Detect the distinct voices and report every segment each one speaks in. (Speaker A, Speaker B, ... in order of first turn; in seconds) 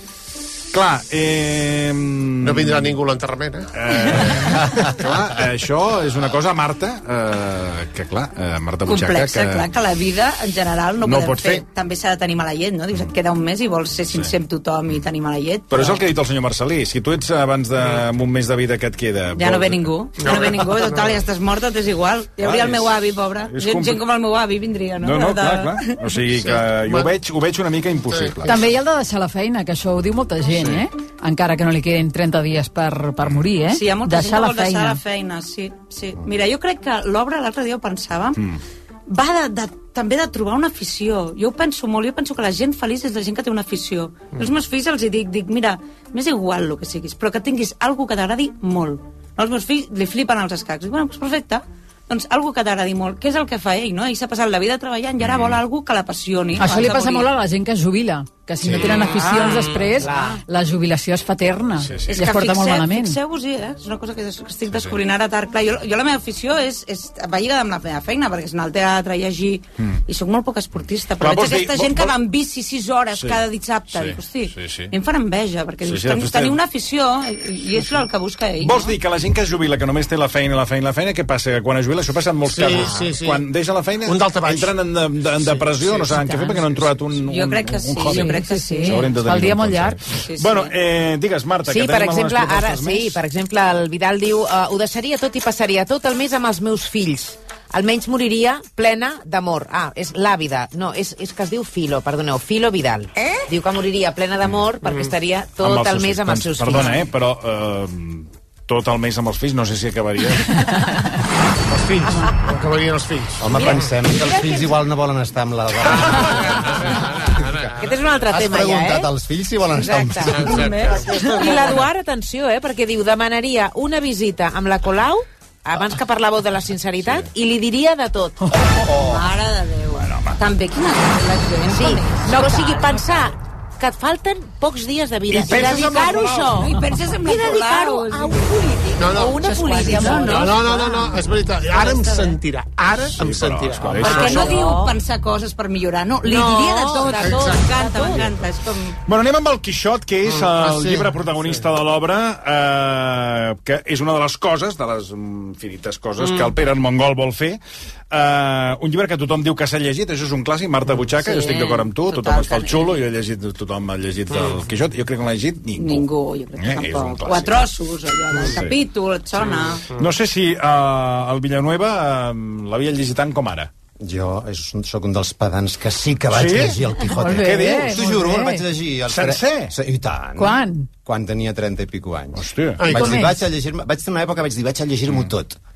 Speaker A: 0.7-3.0, 3.7-9.7, 11.0-11.6, 15.7-20.5, 22.4-24.0, 25.0-28.6, 55.2-55.6, 58.6-59.3, 61.8-62.2, 64.7-65.0, 71.2-72.2, 73.1-74.9, 75.8-76.6, 77.7-78.1, 78.6-93.2, 105.6-110.8, 129.9-130.4, 143.1-144.5, 149.1-157.6, 158.1-167.7, 168.4-168.8, 169.9-173.7, 176.3-178.1, 179.1-179.7, 182.3-183.0
Speaker B: 2.4-4.4, 20.2-21.2, 26.3-27.1, 28.1-28.6, 30.5-30.8, 82.5-83.5, 84.0-84.8, 85.4-86.9, 104.8-105.1, 111.7-113.8, 115.9-117.8, 120.3-121.7, 135.3-136.5, 139.0-139.4, 140.2-144.5, 147.1-147.6, 150.3-151.6, 164.3-164.6, 182.8-183.2
Speaker C: 8.8-16.0, 19.4-25.9, 33.7-38.4, 39.1-57.3, 58.8-59.9, 62.1-78.9, 87.2-89.0, 90.1-90.7, 128.9-133.0, 135.9-138.5, 139.3-140.9, 144.0-148.9, 161.1-162.9, 165.8-169.8
Speaker D: 28.4-35.0, 56.6-63.2, 88.1-90.0, 177.2-178.6, 180.4-180.9, 182.9-183.3
Speaker E: 60.0-60.4, 72.7-73.2, 91.7-107.0, 113.5-114.8, 117.8-119.1, 119.7-128.5, 131.7-141.1, 141.9-142.2, 144.2-144.9, 146.3-148.3
Speaker F: 113.4-117.7, 118.2-120.9, 174.0-185.6